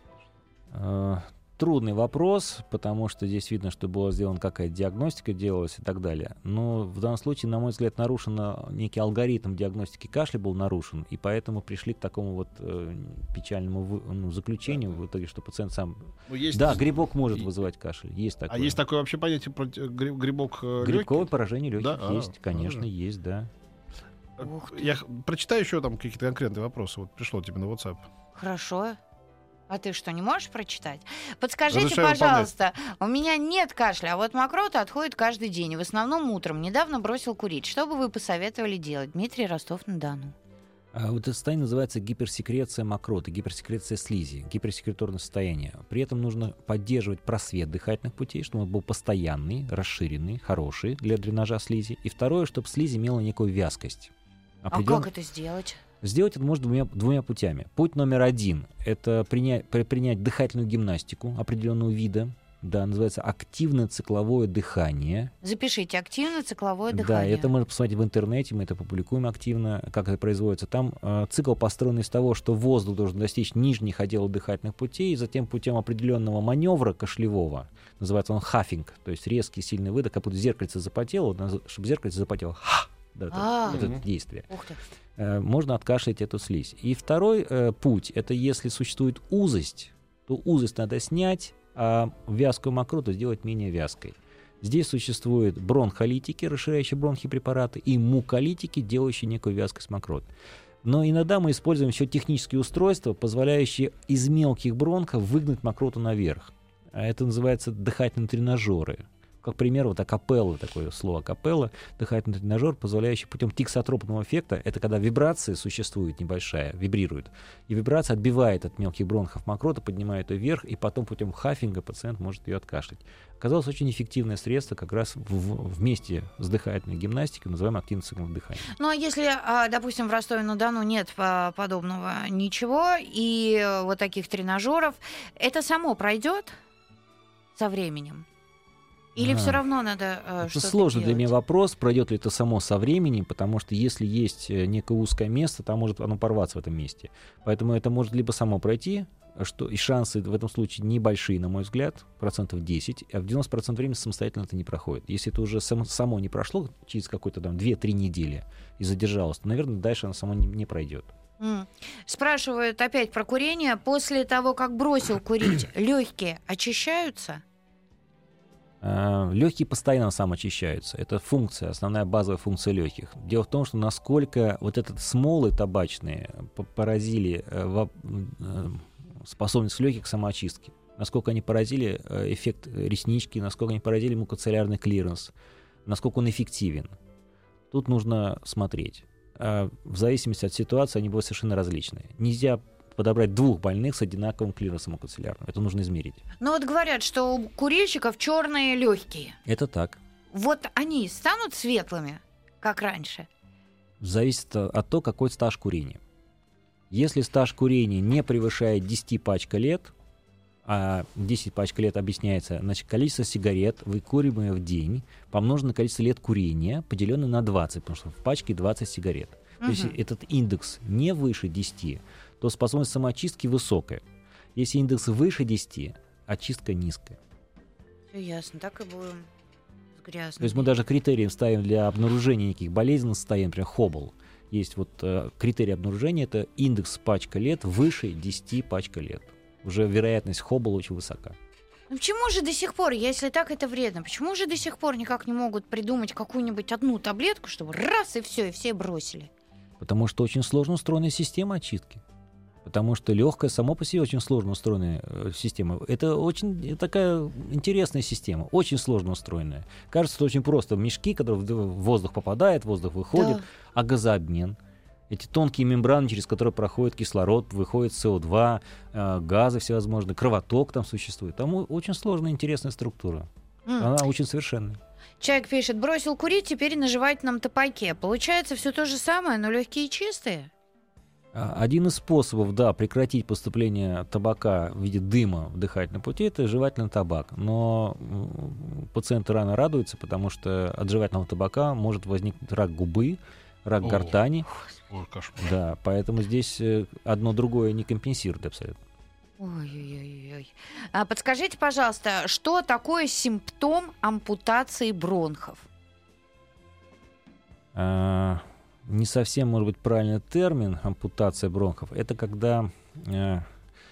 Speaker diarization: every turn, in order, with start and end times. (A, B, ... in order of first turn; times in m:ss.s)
0:00.7-0:18.8 A
0:16.3-0:17.4 B
0:18.5-0:22.8 B
0:20.8-0:23.5 A
0:24.4-0:28.0 B
0:24.4-0:24.8 C
0:28.4-0:29.0 C
0:29.7-0:40.4 C
0:31.7-0:32.5 B
0:40.9-0:54.1 A
0:54.6-0:55.1 A
0:54.7-0:55.8 C
0:56.0-1:05.3 A
1:05.4-1:07.5 C
1:06.9-1:24.5 A
1:23.3-1:23.9 C
1:23.7-1:24.0 B
1:24.5-1:24.8 C
1:25.2-1:40.3 A
1:40.8-2:08.7 A
2:08.7-2:16.6 C
2:17.6-2:18.2 C
2:19.2-2:21.3 C
2:19.2-2:19.6 A
2:20.4-2:41.1 A
2:41.4-2:47.4 C
2:48.8-3:05.3 A
3:05.9-3:06.9 A
3:07.7-3:16.2 A
3:16.4-3:19.4 C
3:19.4-3:20.0 A
3:20.3-3:23.3 C
3:24.0-3:26.0 A
3:26.9-3:29.9 A
3:30.6-3:44.0 A
3:39.6-3:40.0 C
3:44.6-3:47.2 A
3:48.1-3:49.3 C
3:50.0-3:50.7 C
3:50.4-4:01.4 A
4:01.9-4:09.3 C
4:09.8-4:12.0 A
4:12.6-4:24.6 A
4:23.2-4:23.4 C
4:25.1-4:33.3 A
4:33.7-4:33.9 C
4:33.8-4:34.8 A
4:35.2-4:40.5 C
4:41.3-4:54.5 A
4:53.8-4:54.2 B
4:54.9-4:55.5 B
4:55.4-4:58.8 A
4:59.4-5:05.7 C
5:07.7-5:13.5 A